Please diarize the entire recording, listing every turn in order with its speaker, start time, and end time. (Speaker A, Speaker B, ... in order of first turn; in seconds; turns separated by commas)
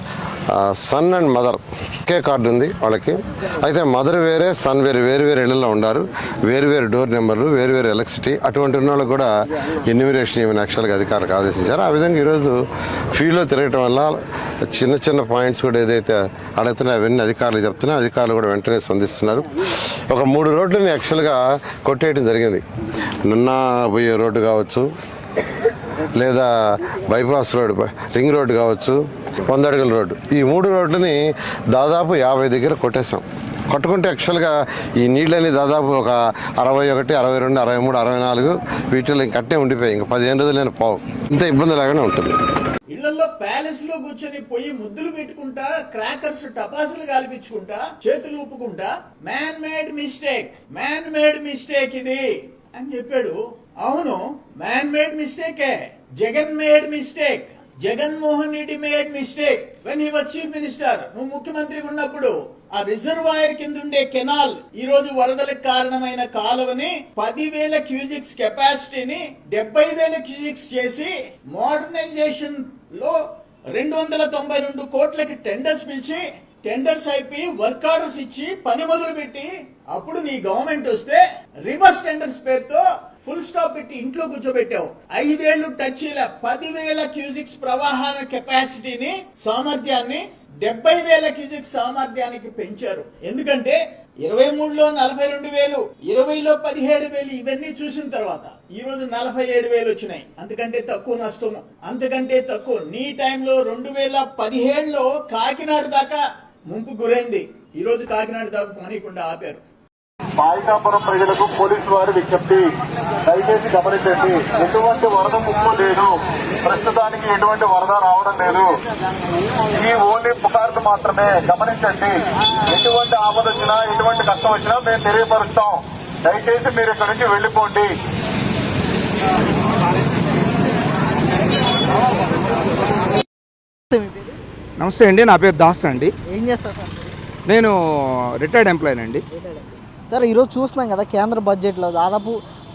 Speaker A: 0.5-12.6, Speaker A: 13.1-22.6, Speaker A: 23.2-24.9, Speaker A: 26.1-42.4, Speaker B: 42.9-52.2, Speaker B: 52.8-73.2, Speaker B: 73.7-109.6, Speaker C: 110.4-112.7, Speaker C: 113.3-118.7, Speaker C: 119.7-128.0, Speaker D: 133.9-134.3, Speaker E: 134.8-136.1, Speaker D: 136.3-137.1, Speaker E: 137.5-139.2, Speaker D: 140.1-142.4